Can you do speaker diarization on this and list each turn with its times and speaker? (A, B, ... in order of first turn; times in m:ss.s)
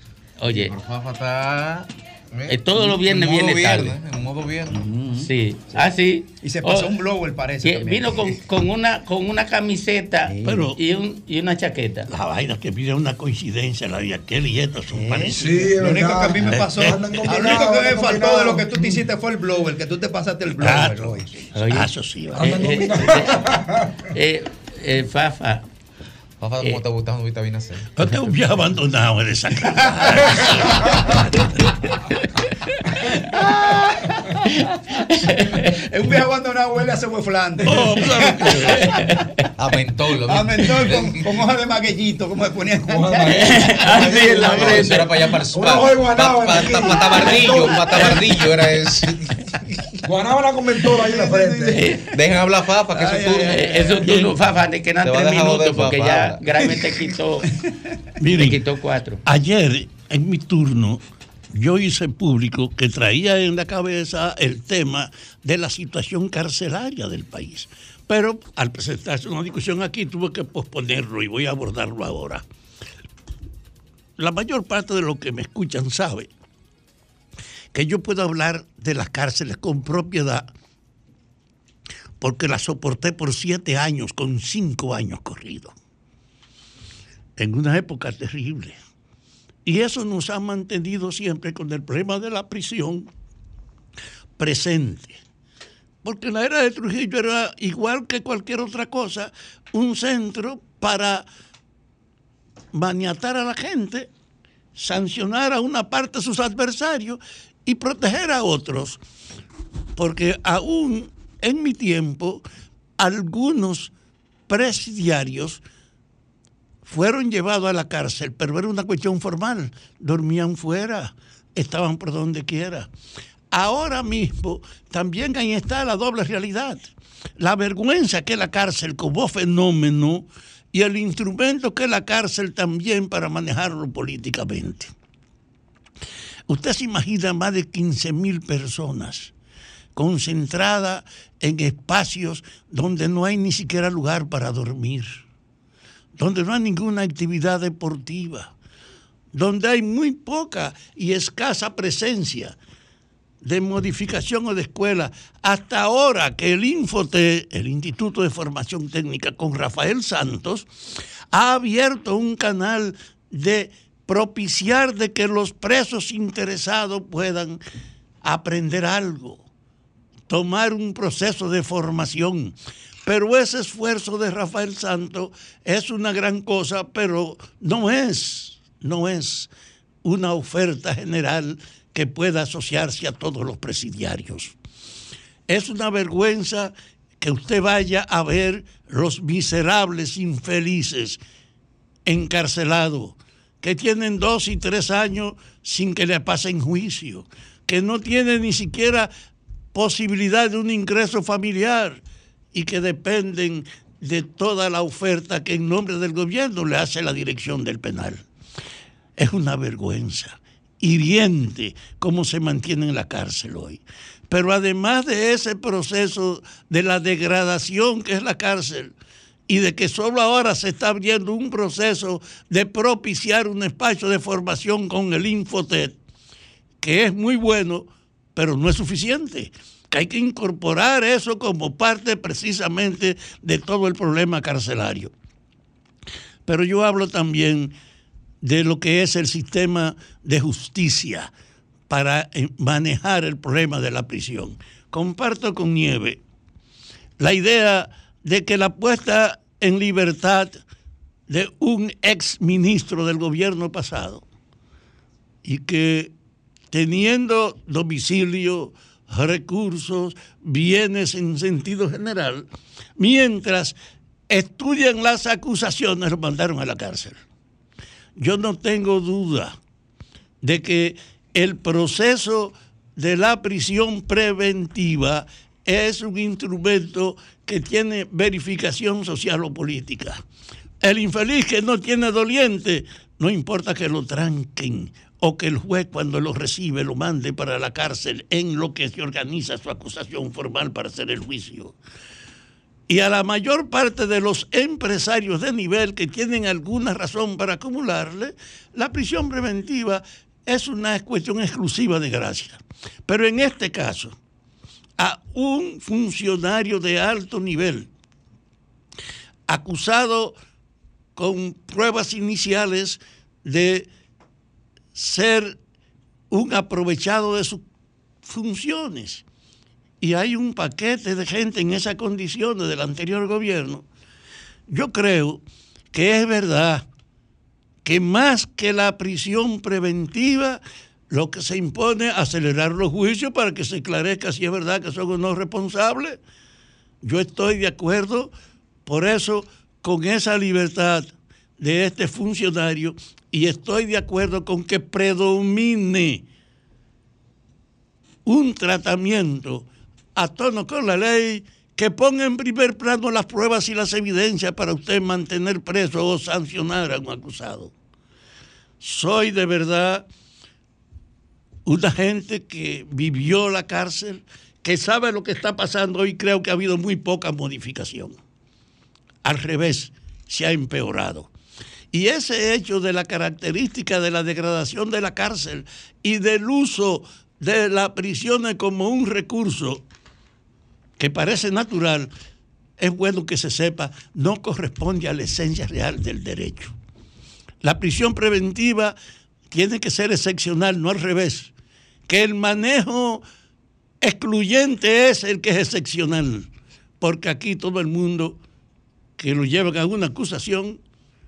0:00.4-0:00.7 A
0:00.6-0:04.8 B
0:02.5-0:04.0 A
0:04.7-0:05.8 C
0:05.2-0:06.9 A
0:06.4-0:08.4 C
0:07.6-0:12.1 A
0:10.3-0:10.7 C
0:10.4-0:10.8 D
0:12.1-0:15.6 D
0:15.0-0:21.3 C
0:15.4-0:19.0 E
0:20.6-0:22.6 D
0:21.5-0:23.4 A
0:22.4-0:23.9 E
0:24.1-0:25.6 A
0:26.4-0:27.8 B
0:28.0-0:30.8 D
0:33.5-0:33.9 C
0:35.2-0:35.7 A
0:35.7-0:39.1 C
0:37.6-0:38.8 D
0:39.6-0:41.3 B
0:40.3-0:43.4 C
0:42.9-0:48.2 E
0:43.3-0:45.1 A
0:44.0-0:49.2 B
0:50.0-0:51.8 E
0:51.0-0:51.9 C
0:51.7-0:52.0 A
0:52.1-0:54.2 B
0:53.0-0:54.0 C
0:53.4-0:57.5 A
0:55.0-0:56.4 B
0:58.2-0:58.6 D
0:58.4-0:59.2 A
0:59.2-1:01.0 D
1:01.5-1:12.4 D
1:14.2-1:16.3 D
1:17.7-1:20.5 D
1:22.2-1:25.7 D
1:27.4-1:28.8 D
1:29.6-1:33.1 D
1:34.4-1:35.2 D
1:36.0-1:41.2 D
1:42.7-1:44.1 D
1:44.8-1:49.0 D
1:50.0-1:52.4 D
1:53.0-1:53.9 D
1:54.5-1:55.6 D
1:56.8-2:02.9 D
2:03.5-2:06.9 D
2:07.4-2:14.9 D
2:16.5-2:19.3 D
2:20.0-2:25.2 D
2:26.2-2:28.5 D
2:29.3-2:32.6 D
2:33.4-2:40.7 D
2:41.3-2:47.6 D
2:48.2-2:49.4 D
2:50.3-2:59.5 D
3:00.0-3:04.5 D
3:05.5-3:11.2 D
3:12.0-3:19.1 D
3:19.7-3:22.0 D
3:22.5-3:28.2 D
3:29.2-3:38.9 D
3:39.5-3:46.0 D
3:46.8-3:55.1 D
3:56.4-3:57.7 D
3:58.4-4:01.3 D
4:01.9-4:06.2 D
4:07.2-4:10.6 D
4:11.3-4:14.2 D
4:15.4-4:16.1 D
4:16.7-4:22.4 D
4:23.0-4:23.7 D
4:24.3-4:27.2 D
4:28.2-4:29.6 D
4:30.4-4:40.2 D
4:40.8-4:51.8 D
4:52.9-5:04.2 D
5:05.0-5:07.9 D
5:09.5-5:10.4 D
5:11.2-5:13.9 D
5:14.9-5:15.6 D
5:16.3-5:17.6 D
5:18.2-5:19.2 D
5:20.0-5:23.8 D
5:24.7-5:25.4 D
5:25.9-5:26.8 D
5:27.8-5:36.2 D
5:37.0-5:38.3 D
5:38.8-5:46.2 D
5:48.2-5:57.7 D
5:58.8-6:00.0 D
6:01.6-6:08.2 D
6:09.2-6:11.3 D
6:11.9-6:19.8 D
6:21.0-6:22.1 D
6:22.8-6:26.7 D
6:27.6-6:28.9 D
6:29.5-6:31.5 D
6:32.1-6:33.2 D
6:34.0-6:36.5 D
6:37.0-6:38.4 D
6:39.2-6:40.8 D